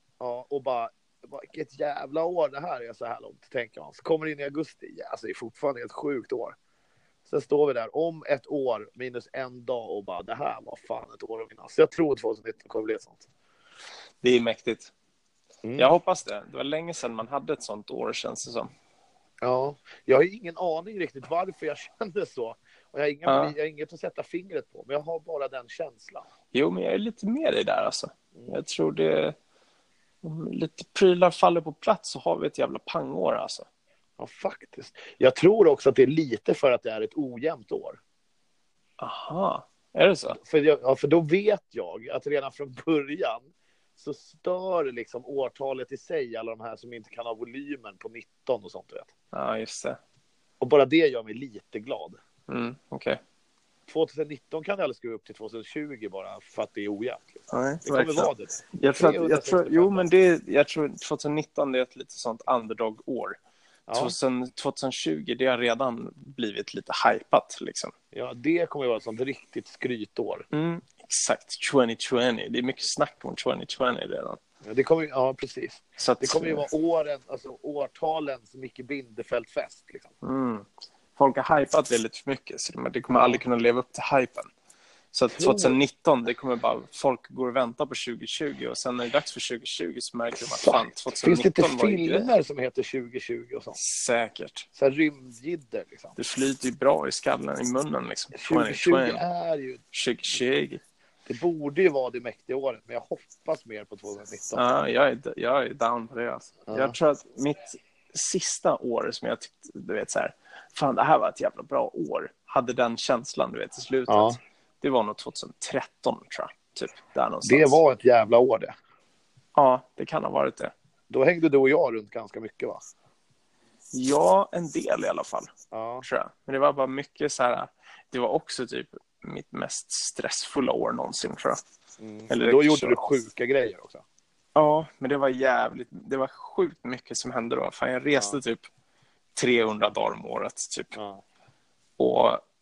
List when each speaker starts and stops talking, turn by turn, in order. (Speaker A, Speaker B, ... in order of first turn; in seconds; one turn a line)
Speaker A: 0.2-6.6
Speaker A: 7.3-13.3
Speaker B: 14.2-14.9
Speaker A: 15.6-15.9
Speaker B: 15.8-18.7
Speaker A: 19.4-26.2
Speaker B: 23.3-23.5
Speaker B: 26.5-29.4
Speaker A: 28.3-28.6
Speaker B: 30.2-33.7
Speaker A: 34.2-38.0
Speaker B: 39.0-40.4
Speaker A: 40.4-49.1
Speaker B: 49.3-50.0
Speaker A: 50.6-52.2
Speaker B: 52.5-53.2
Speaker A: 53.9-60.1
Speaker B: 57.5-63.4
Speaker A: 63.9-64.2
Speaker B: 63.9-67.9
Speaker A: 68.1-70.5
Speaker B: 70.5-74.4
Speaker A: 74.6-80.1
Speaker B: 76.0-76.6
Speaker B: 80.2-84.5
Speaker A: 83.1-83.4
Speaker B: 85.1-92.3
Speaker A: 85.3-85.8
Speaker A: 90.5-93.8
Speaker B: 93.8-94.7
Speaker A: 94.7-96.2
Speaker B: 96.2-99.2
Speaker A: 98.3-99.8
Speaker B: 99.9-100.8
Speaker A: 101.3-104.6
Speaker B: 104.5-117.8
Speaker A: 106.7-107.0
Speaker A: 114.1-114.4
Speaker A: 117.4-118.7
Speaker B: 119.5-120.7
Speaker A: 121.1-122.8
Speaker B: 123.9-125.5
Speaker A: 125.7-126.0
Speaker B: 126.0-131.6
Speaker A: 132.0-134.0
Speaker B: 132.3-133.0
Speaker B: 134.5-138.7
Speaker B: 139.3-140.9
Speaker A: 140.9-141.2
Speaker B: 142.0-142.4